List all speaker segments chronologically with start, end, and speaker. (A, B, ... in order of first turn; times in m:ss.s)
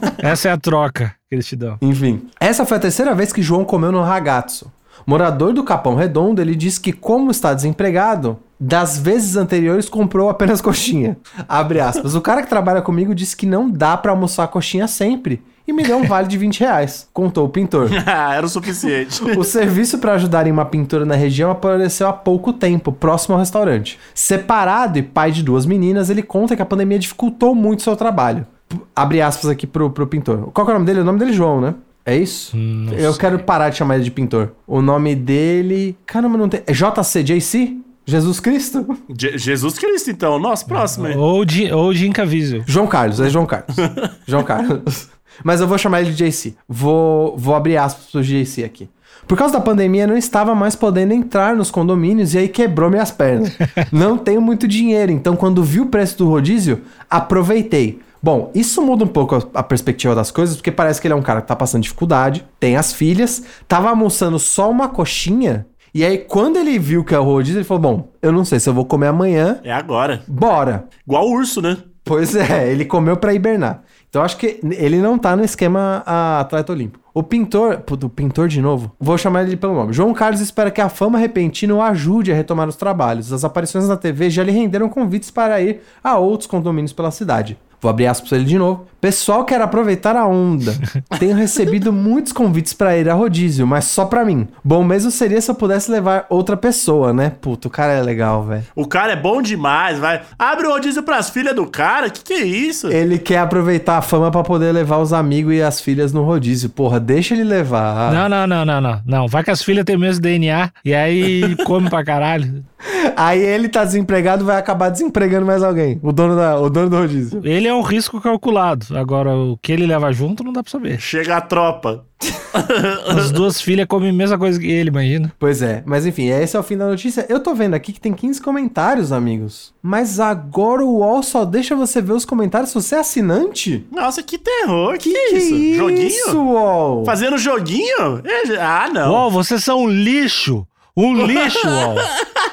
0:00.2-0:01.8 A
0:01.8-0:18.0 B
0:17.8-0:19.5 C
0:19.2-0:39.0 B
0:32.5-0:33.4 A
0:39.1-0:41.2 C
0:40.7-0:42.7 A
0:42.7-1:09.6 B
0:43.8-0:44.1 C
1:09.6-1:10.3 C
1:10.3-1:10.9 B
1:11.0-1:11.9 C
1:12.1-1:38.7 B
1:38.8-1:43.0 C
1:42.9-1:48.3 B
1:48.1-1:52.6 A
1:52.8-1:57.5 B
1:57.4-2:01.0 A
2:01.0-2:03.4 C
2:03.1-2:05.3 A
2:05.4-2:13.9 B
2:13.9-2:16.4 C
2:15.0-2:17.2 B
2:17.0-2:19.3 C
2:19.0-2:22.1 A
2:21.2-2:22.0 C